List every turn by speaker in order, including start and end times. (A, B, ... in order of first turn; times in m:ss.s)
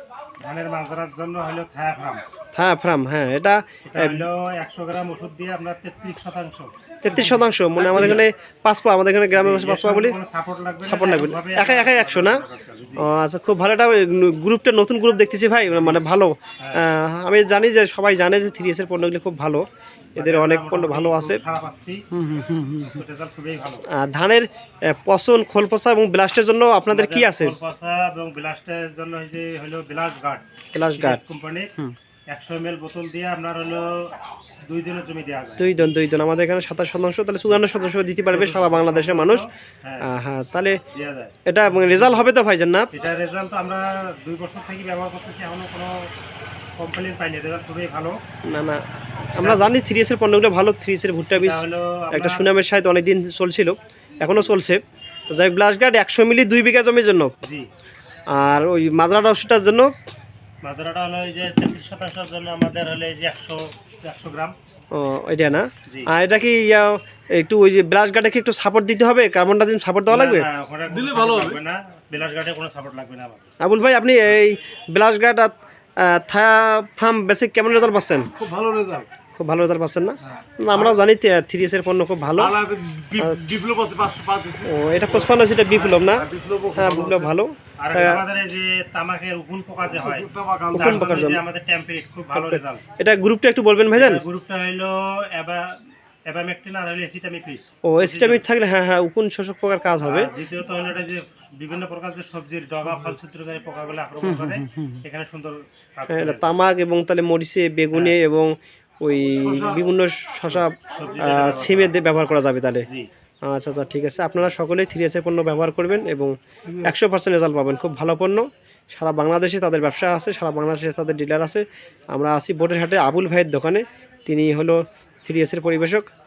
0:00.4-0:02.2 A
0:02.5-0:04.3 B
0:03.8-0:08.3 A
0:07.0-0:10.2 B
0:09.3-0:13.1 A
0:10.8-0:12.4 B
0:13.0-0:19.6 B
0:15.7-0:16.0 A
0:16.6-0:16.8 A
0:20.2-0:21.4 B
0:20.2-0:22.1 A
0:22.1-0:23.0 B
0:22.8-0:23.8 A
0:23.9-0:27.5 B
0:26.9-0:31.8 A
0:30.7-0:31.2 B
0:32.3-0:34.1 A
0:34.7-0:35.8 A
0:35.6-0:39.4 B
0:38.2-0:40.1 A
0:40.0-0:40.8 B
0:40.9-0:42.2 A
0:41.4-0:42.9 B
0:42.9-0:46.1 A
0:46.8-0:48.2 A
0:48.4-0:48.8 B
0:49.2-0:49.7 A
0:49.4-0:57.3 B
0:51.3-0:52.5 A
0:57.4-0:57.7 A
0:58.3-0:59.9 B
1:00.6-1:04.5 A
1:04.9-1:10.4 B
1:10.1-1:13.5 A
1:10.9-1:11.6 C
1:13.6-1:18.3 B
1:18.3-1:19.1 C
1:19.4-1:22.6 B
1:22.4-1:27.3 C
1:23.2-1:23.4 B
1:24.6-1:28.2 B
1:25.7-1:26.1 A
1:27.8-1:32.8 A
1:30.0-1:31.2 C
1:30.7-1:31.4 B
1:32.3-1:34.2 B
1:33.9-1:38.4 A
1:37.8-1:40.3 B
1:40.0-1:46.6 A
1:44.2-1:45.0 B
1:46.1-1:52.8 B
1:47.9-1:48.2 A
1:49.4-1:49.8 C
1:50.5-1:51.9 A
1:53.4-2:06.1 B